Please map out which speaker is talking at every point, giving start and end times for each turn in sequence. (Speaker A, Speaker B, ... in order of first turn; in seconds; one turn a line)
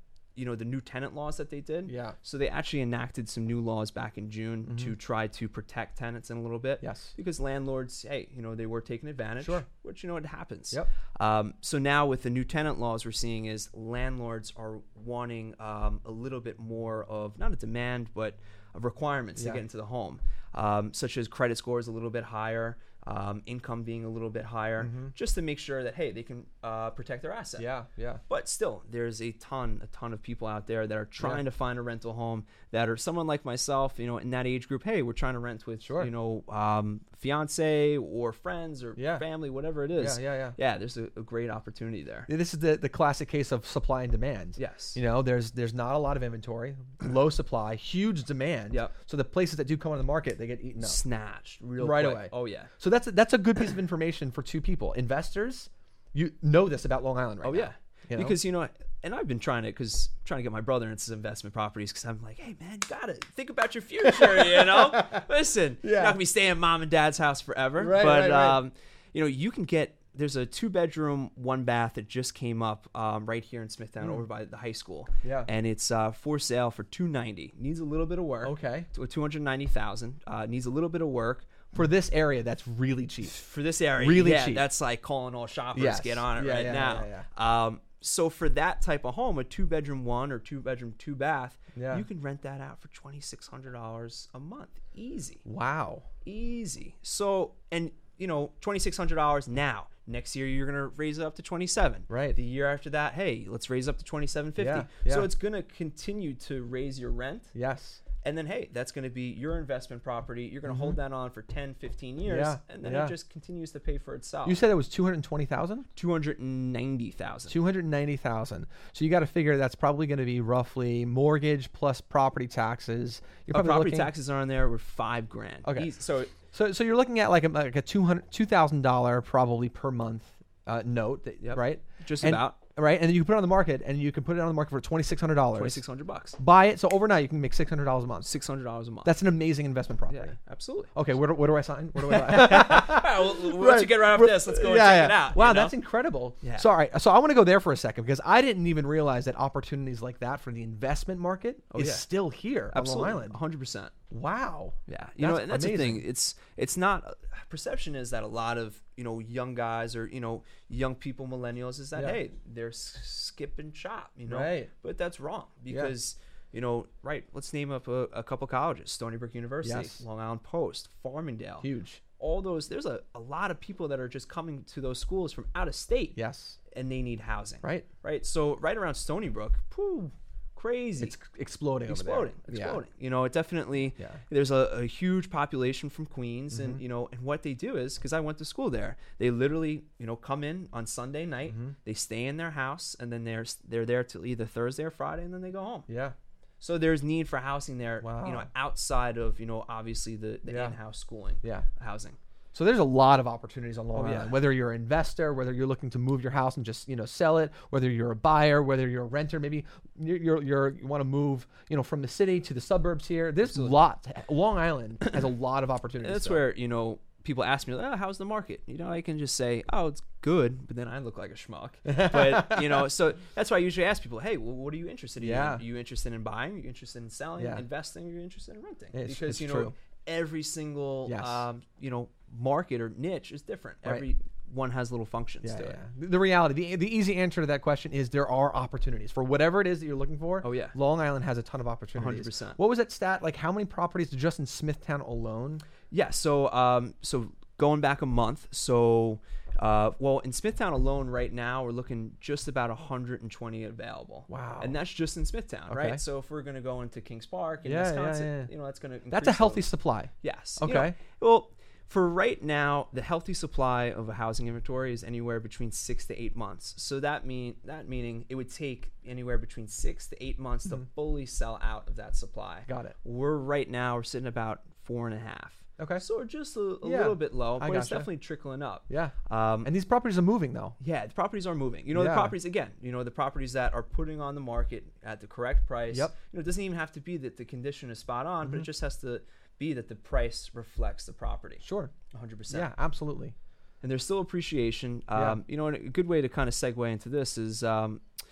Speaker A: 0.4-27.6
Speaker B: 1.9-2.1
Speaker B: 4.7-4.9
Speaker B: 6.8-7.1
Speaker B: 9.4-9.7
Speaker B: 19.4-19.6
Speaker B: 24.8-25.1
Speaker B: 27.6-28.2
Speaker A: 28.3-42.3
Speaker B: 35.8-36.1
Speaker B: 39.0-39.2
Speaker B: 40.0-40.6
Speaker B: 42.3-51.0
Speaker A: 44.6-45.0
Speaker A: 50.8-52.7
Speaker B: 51.8-58.4
Speaker A: 57.4-81.5
Speaker B: 64.0-65.2
Speaker B: 65.8-66.2
Speaker B: 67.8-68.6
Speaker B: 75.2-75.5
Speaker B: 78.4-78.9
Speaker B: 81.7-83.3
Speaker A: 83.2-95.4
Speaker B: 84.0-84.7
Speaker B: 85.7-87.2
Speaker B: 91.7-92.0
Speaker B: 95.4-96.1
Speaker A: 96.2-107.5
Speaker B: 102.1-102.4
Speaker B: 104.6-105.3
Speaker B: 107.5-108.0
Speaker A: 108.2-114.6
Speaker B: 110.7-111.0
Speaker B: 112.3-113.1
Speaker B: 114.4-115.9
Speaker A: 116.0-117.6
Speaker B: 117.5-124.1
Speaker A: 123.5-126.3
Speaker B: 125.6-125.9
Speaker B: 126.5-135.8
Speaker A: 131.4-132.6
Speaker A: 135.6-136.4
Speaker B: 136.4-138.3
Speaker A: 138.2-139.1
Speaker B: 139.0-140.3
Speaker A: 140.1-140.9
Speaker B: 140.9-153.4
Speaker A: 142.0-145.7
Speaker A: 146.4-146.7
Speaker A: 151.7-152.1
Speaker A: 152.7-153.9
Speaker B: 154.1-156.0
Speaker A: 154.9-171.7
Speaker B: 164.3-164.7
Speaker B: 165.7-165.9
Speaker B: 169.6-170.0
Speaker B: 171.6-172.0
Speaker A: 172.2-176.2
Speaker B: 176.1-176.6
Speaker A: 176.7-181.2
Speaker B: 181.0-182.8
Speaker A: 181.9-195.9
Speaker B: 186.5-186.8
Speaker B: 191.5-191.7
Speaker B: 195.9-196.1
Speaker A: 196.6-202.2
Speaker B: 198.0-198.5
Speaker B: 200.5-200.8
Speaker B: 201.4-201.7
Speaker B: 202.5-216.4
Speaker A: 203.9-204.4
Speaker A: 213.4-213.8
Speaker A: 216.0-235.8
Speaker B: 221.9-222.9
Speaker B: 225.2-225.6
Speaker B: 227.4-227.6
Speaker B: 228.9-229.7
Speaker B: 231.1-231.4
Speaker B: 235.4-245.6
Speaker A: 240.4-240.8
Speaker A: 241.9-242.6
Speaker A: 245.9-259.6
Speaker B: 254.3-254.7
Speaker B: 255.7-256.0
Speaker B: 257.6-258.5
Speaker B: 259.1-260.9
Speaker A: 260.2-279.7
Speaker B: 272.7-272.9
Speaker B: 275.8-276.0
Speaker B: 276.8-278.1
Speaker B: 278.9-280.8
Speaker A: 280.8-292.7
Speaker B: 281.9-282.4
Speaker B: 291.6-291.9
Speaker B: 292.5-293.4
Speaker A: 293.8-298.0
Speaker B: 295.1-295.4